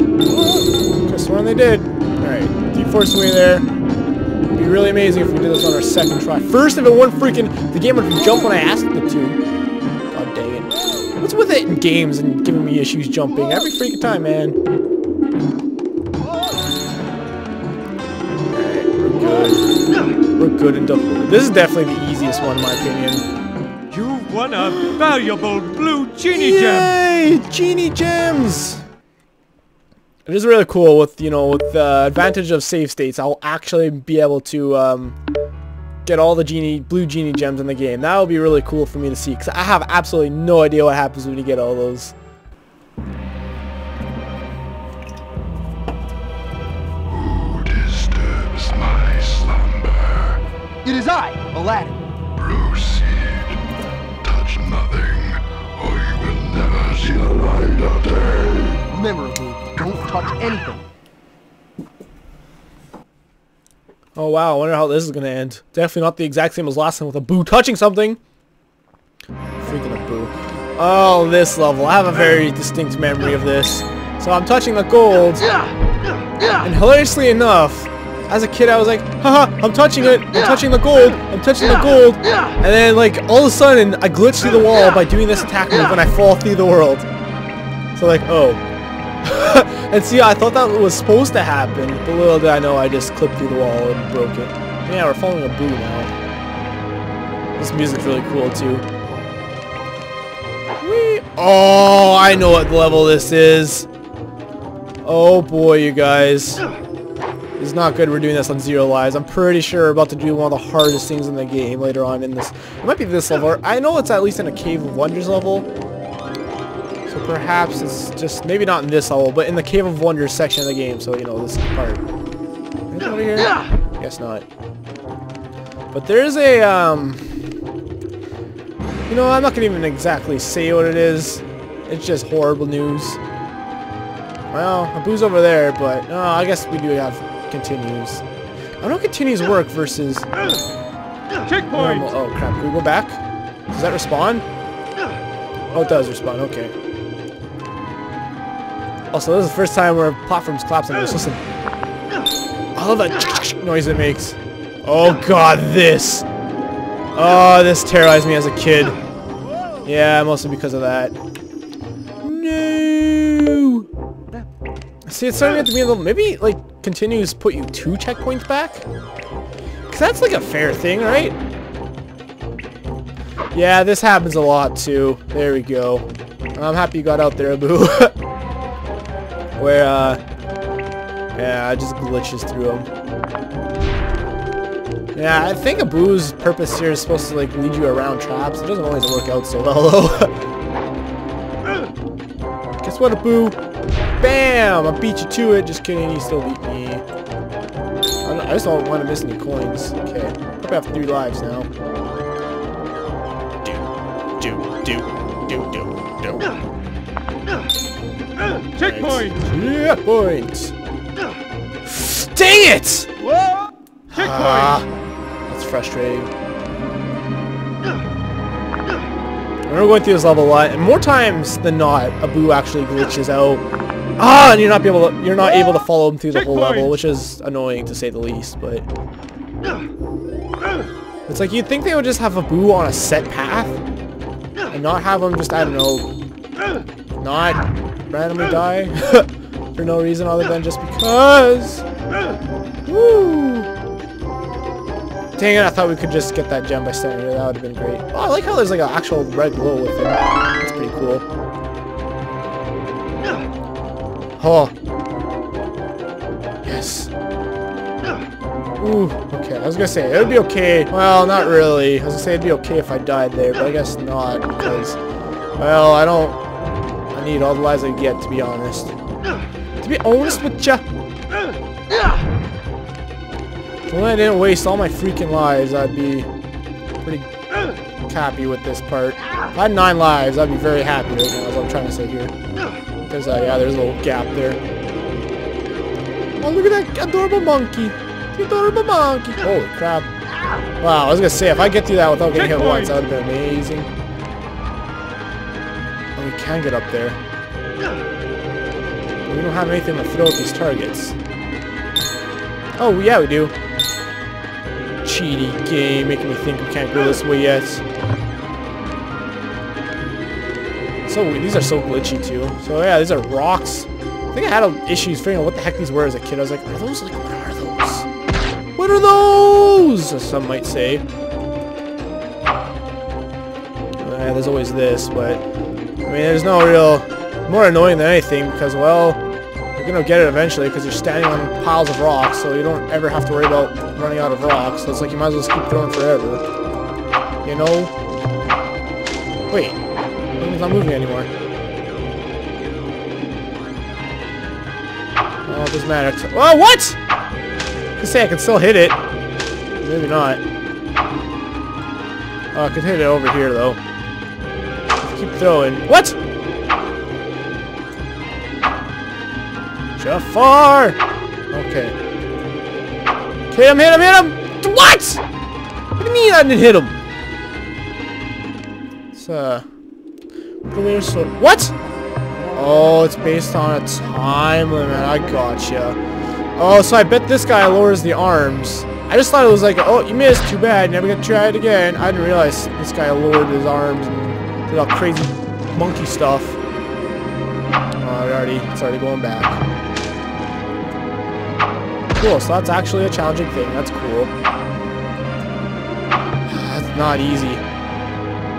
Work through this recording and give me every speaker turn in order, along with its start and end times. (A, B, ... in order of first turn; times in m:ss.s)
0:00.3-0:03.7 A
0:04.5-0:09.4 A
0:10.1-0:14.6 A
0:18.5-0:19.6 A
0:20.4-0:23.2 A
0:23.9-0:27.0 B
0:26.3-0:28.8 A
0:30.2-0:35.2 A
0:36.0-0:42.1 A
0:47.1-0:50.4 C
0:50.8-0:52.0 D
0:52.4-0:53.6 C
0:54.2-0:58.8 C
0:58.9-1:00.8 D
1:04.2-1:08.2 A
1:09.6-1:15.5 A
1:16.6-1:27.0 A
1:28.0-1:28.6 A
1:29.2-1:36.1 A
1:37.6-1:38.8 A
1:40.8-1:43.9 A
1:45.0-1:46.6 A
1:47.6-1:55.7 A
1:57.1-2:02.0 A
2:02.9-2:04.4 A
2:05.9-2:07.2 A
2:09.1-2:13.2 A
2:14.5-2:18.2 A
2:18.8-2:20.6 A
2:21.4-2:22.1 B
2:21.7-2:23.2 A
2:23.7-2:24.4 A
2:25.7-2:26.7 A
2:29.1-2:31.4 A
2:32.7-2:36.2 A
2:37.1-2:39.0 A
2:39.8-2:41.1 A
2:42.2-2:43.9 A
2:45.0-2:48.8 A
2:49.9-2:51.4 A
2:53.5-2:58.1 A
2:59.6-3:00.2 A
3:01.3-3:02.9 A
3:05.1-3:10.4 A
3:12.8-3:13.6 A
3:14.2-3:17.0 A
3:18.2-3:21.7 A
3:23.6-3:26.5 A
3:28.8-3:30.7 A
3:28.8-3:29.3 B
3:31.8-3:33.1 A
3:34.1-3:34.9 A
3:34.2-3:34.7 B
3:35.5-3:36.3 A
3:39.7-3:43.6 A
3:44.2-3:48.8 A
3:46.4-3:46.9 B
3:51.3-3:53.8 A
3:54.7-3:56.0 A
3:57.2-4:01.8 A
4:02.8-4:03.7 A
4:05.4-4:11.2 A
4:14.4-4:14.7 A
4:16.6-4:17.1 A
4:18.8-4:25.0 A
4:25.6-4:26.4 A
4:27.1-4:28.9 A
4:29.8-4:30.8 A
4:33.9-4:36.3 A
4:37.0-4:37.3 A
4:38.1-4:42.3 A
4:43.0-4:44.6 A
4:46.4-4:50.1 A
4:50.8-4:53.9 A
4:52.4-4:52.9 B
4:56.2-4:57.2 A
4:59.3-5:01.1 A
5:02.8-5:03.5 A
5:04.8-5:07.8 A
5:11.1-5:18.1 A
5:18.8-5:21.0 A
5:24.0-5:25.4 A
5:26.0-5:29.2 A
5:29.8-5:36.4 A
5:37.4-5:37.9 A
5:39.5-5:39.8 A
5:40.4-5:41.3 A
5:45.4-5:47.0 A
5:48.0-5:49.0 A
5:49.8-5:50.4 A
5:52.5-5:53.8 A
5:55.0-5:56.2 A
6:00.0-6:01.0 A
6:01.5-6:02.0 A
6:03.5-6:05.2 A
6:06.0-6:06.9 A
6:09.1-6:09.6 A
6:10.7-6:11.7 A
6:12.5-6:16.0 A
6:16.6-6:26.6 A
6:28.0-6:29.6 A
6:32.1-6:34.3 A
6:36.4-6:37.6 A